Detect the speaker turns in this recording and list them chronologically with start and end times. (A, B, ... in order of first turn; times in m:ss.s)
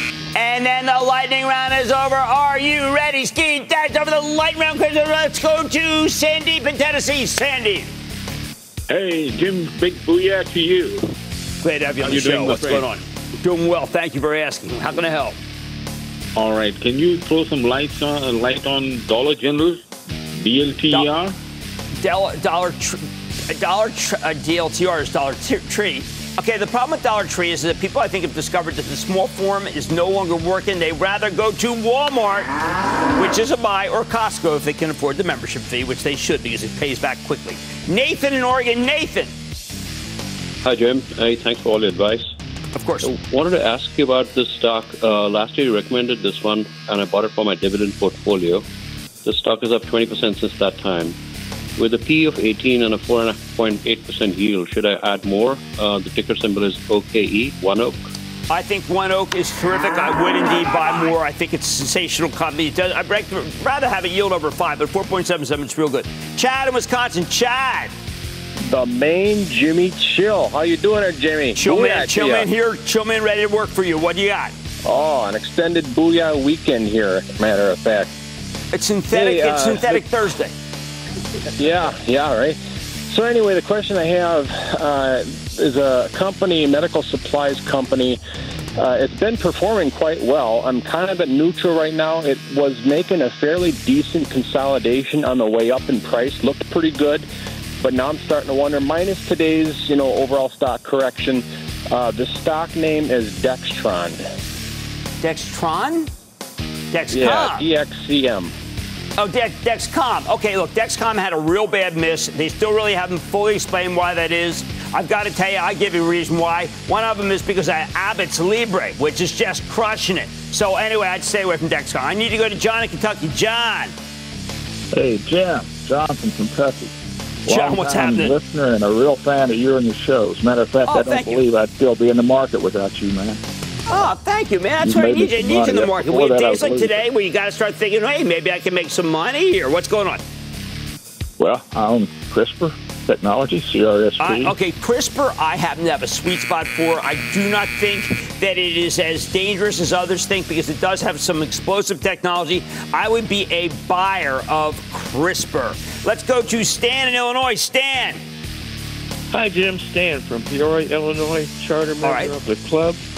0:00.4-0:07.9 A
0:08.9-0:11.1 B
0:11.6-0:15.4 A
0:12.0-0:12.9 B
0:16.4-0:19.8 B
0:20.4-0:21.3 B
0:22.0-0:32.5 A
0:33.2-0:39.3 A
0:40.6-0:42.3 C
0:42.8-0:43.1 A
0:43.0-0:48.6 C
0:49.2-0:51.2 C
0:51.8-0:58.1 C
0:58.5-1:07.9 A
1:08.7-1:12.5 D
1:11.6-1:14.5 A
1:14.9-1:18.1 D
1:18.7-1:20.5 A
1:19.1-1:20.0 D
1:21.6-1:28.2 D
1:28.8-1:37.3 D
1:37.8-1:44.2 D
1:45.2-1:46.1 A
1:46.9-1:47.7 A
1:47.1-1:48.5 D
1:49.2-2:03.9 A
2:04.9-2:06.9 E
2:07.5-2:13.4 E
2:07.5-2:08.4 A
2:10.9-2:11.4 A
2:13.9-2:20.2 A
2:14.8-2:17.0 E
2:21.4-2:24.5 E
2:24.2-2:38.2 A
2:39.3-2:43.0 F
2:42.0-2:42.3 A